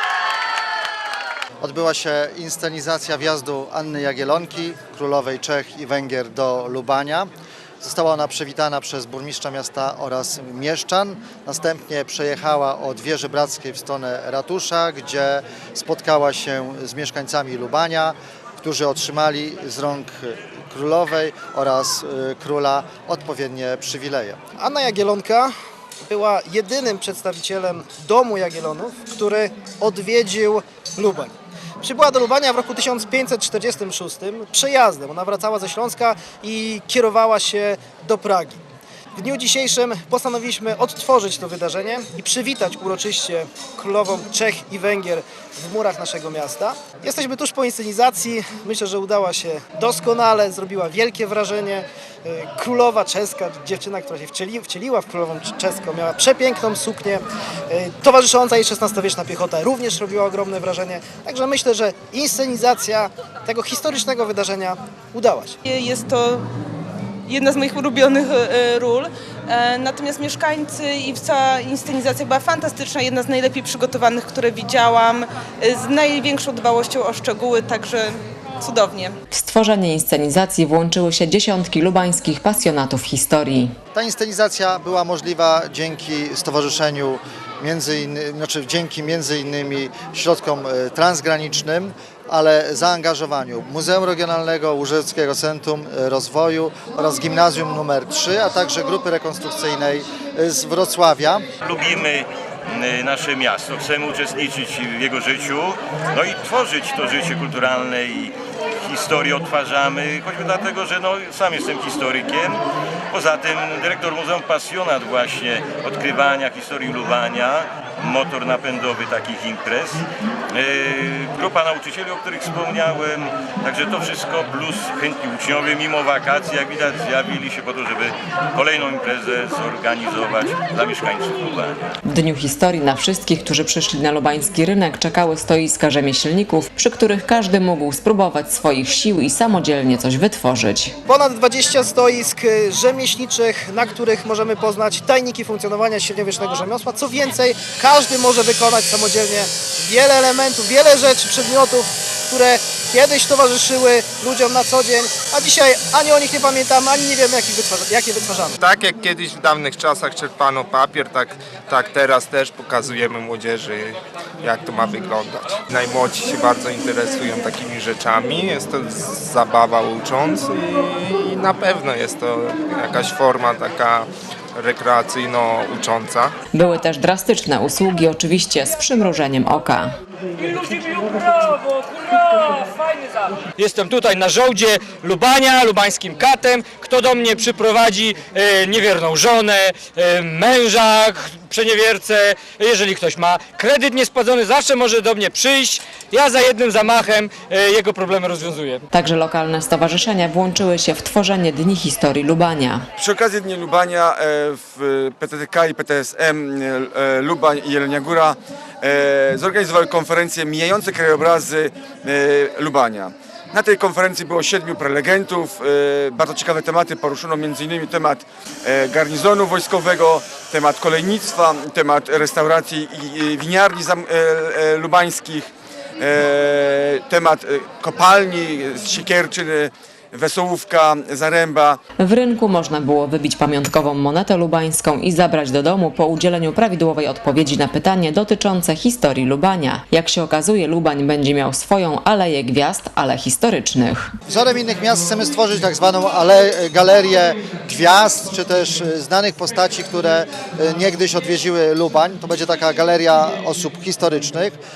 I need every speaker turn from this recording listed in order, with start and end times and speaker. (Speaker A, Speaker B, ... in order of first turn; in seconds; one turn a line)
Speaker A: 1.6-7.3
Speaker A: 7.8-24.4
Speaker B: 24.6-25.5
Speaker B: 26.1-38.6
Speaker B: 39.2-65.5
Speaker C: 65.6-66.5
Speaker C: 67.3-79.1
Speaker D: 79.3-83.7
Speaker A: 83.9-101.5
Speaker E: 101.6-131.8
Speaker D: 132.1-140.9
Speaker B: 141.1-158.5
Speaker F: 158.6-176.3
Speaker D: 176.5-180.0
Speaker G: 180.4-198.8
Speaker D: 198.9-202.9
Speaker H: 203.0-231.8
Speaker D: 232.0-244.1
Speaker A: 244.3-254.6